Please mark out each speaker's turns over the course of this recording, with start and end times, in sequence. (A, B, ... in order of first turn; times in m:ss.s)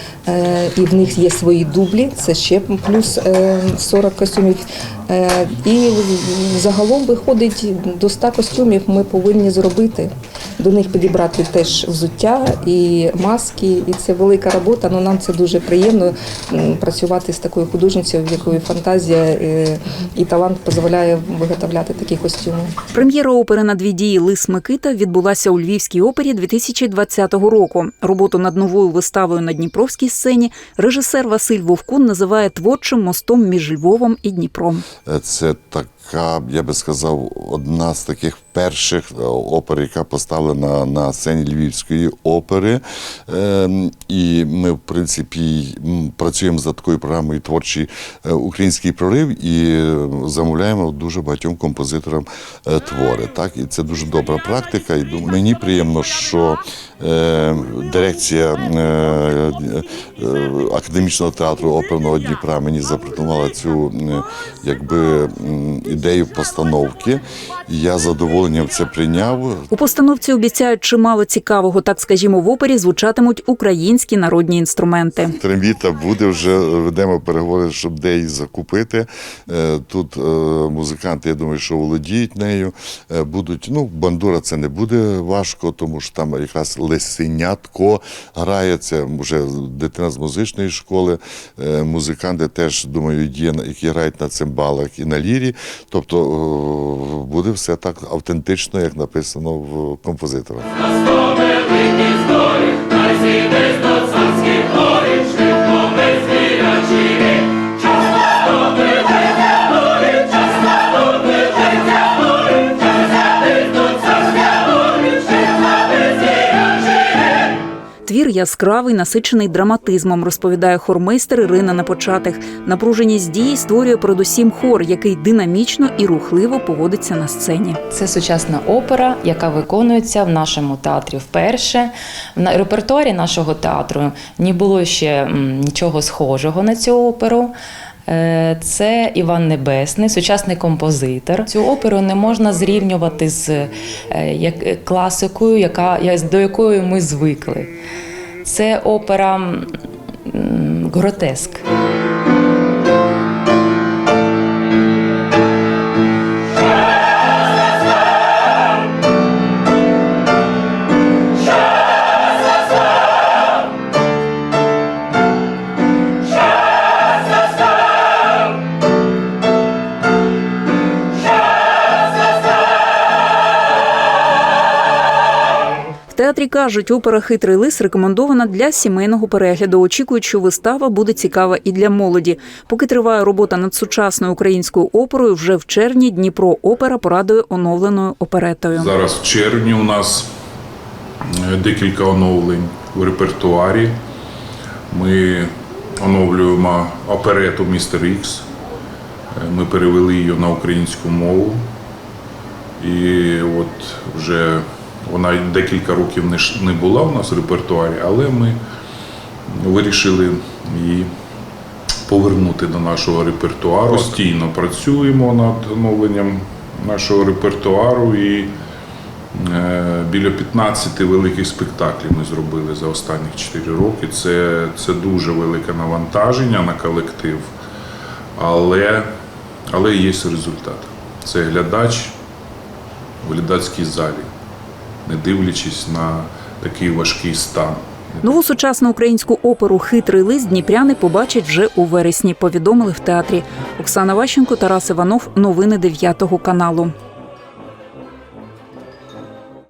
0:00.3-0:22.7 A
0:22.9-0:34.8 B
0:35.1-1:09.7 C
1:09.7-1:15.4 B
1:15.3-1:40.7 C
1:58.0-2:07.8 B
2:07.9-2:17.6 D
2:18.1-2:27.7 D
2:28.4-2:29.7 D
2:30.3-2:31.6 D
2:56.1-3:08.9 B
3:08.7-3:10.3 E
3:11.3-3:14.0 E
3:14.9-3:18.5 E
3:19.3-3:21.6 E
3:22.8-3:28.6 E
3:29.5-3:31.1 E
3:32.1-3:38.6 E
3:39.3-3:47.5 E
3:48.4-3:49.1 E
3:49.7-3:52.2 E
3:53.2-3:54.3 E
3:55.1-3:58.4 E
3:58.2-4:06.9 B